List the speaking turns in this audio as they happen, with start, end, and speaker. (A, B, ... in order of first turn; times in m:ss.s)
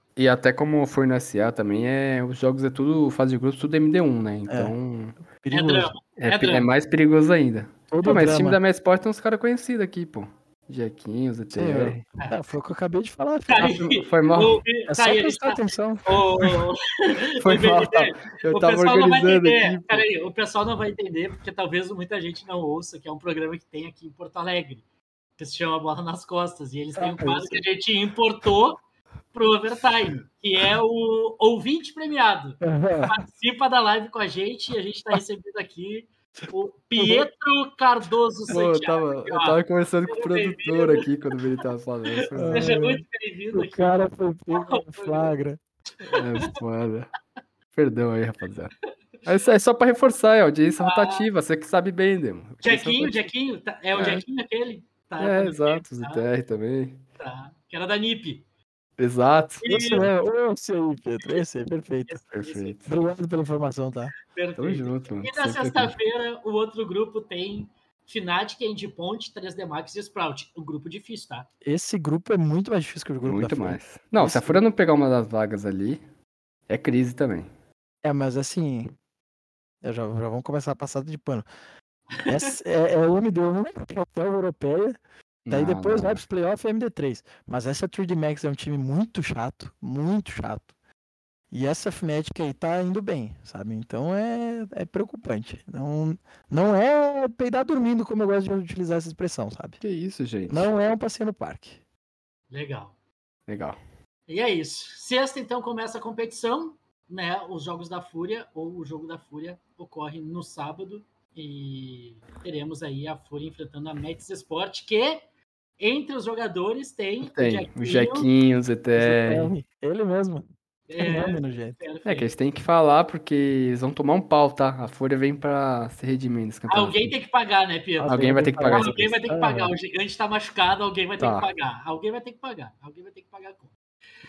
0:00.2-0:05.2 A
0:04.5-0:04.7 B
0:05.4-0:05.9 B
0:05.5-0:06.7 C
0:06.2-0:12.0 A
0:07.9-0:08.6 B
0:11.5-0:13.7 B
0:13.5-0:24.8 C
0:13.6-0:14.6 A
0:14.9-0:16.0 B
0:17.4-0:20.0 A
0:25.4-0:28.8 C
0:27.0-0:27.6 B
0:29.3-0:41.0 C
0:32.6-0:33.2 B
0:37.0-0:37.3 B
0:38.5-0:42.8 A
0:42.3-0:46.2 B
0:42.5-0:44.0 C
0:44.6-0:45.4 C
0:46.2-0:47.1 A
0:47.7-0:48.7 A
0:49.2-0:53.3 A
0:50.8-0:51.2 C
0:52.6-0:56.2 C
0:53.9-0:54.2 A
0:55.2-0:57.0 A
0:57.2-0:58.4 C
0:59.0-0:59.6 A
0:59.6-1:00.1 C
0:59.6-1:02.2 B
1:02.1-1:02.7 C
1:02.3-1:02.9 A
1:02.9-1:04.1 B
1:04.3-1:11.5 C
1:04.6-1:05.9 A
1:11.6-1:14.6 B
1:13.2-1:16.0 A
1:16.7-1:17.5 A
1:18.0-1:18.9 B
1:19.8-1:21.4 B
1:22.2-1:22.4 C
1:22.3-1:25.0 B
1:25.4-1:26.2 A
1:25.5-1:30.7 B
1:31.5-1:39.8 B
1:39.8-1:40.6 A
1:40.5-1:41.8 B
1:42.5-1:42.9 C
1:43.5-1:43.8 A
1:44.3-1:55.2 C
1:55.8-1:58.3 C
1:57.2-1:59.5 A
1:59.0-2:00.4 B
2:00.9-2:02.3 C
2:01.0-2:01.8 B
2:02.0-2:07.1 A
2:06.7-2:13.7 C
2:08.0-2:09.7 B
2:08.1-2:09.2 A
2:11.2-2:11.5 A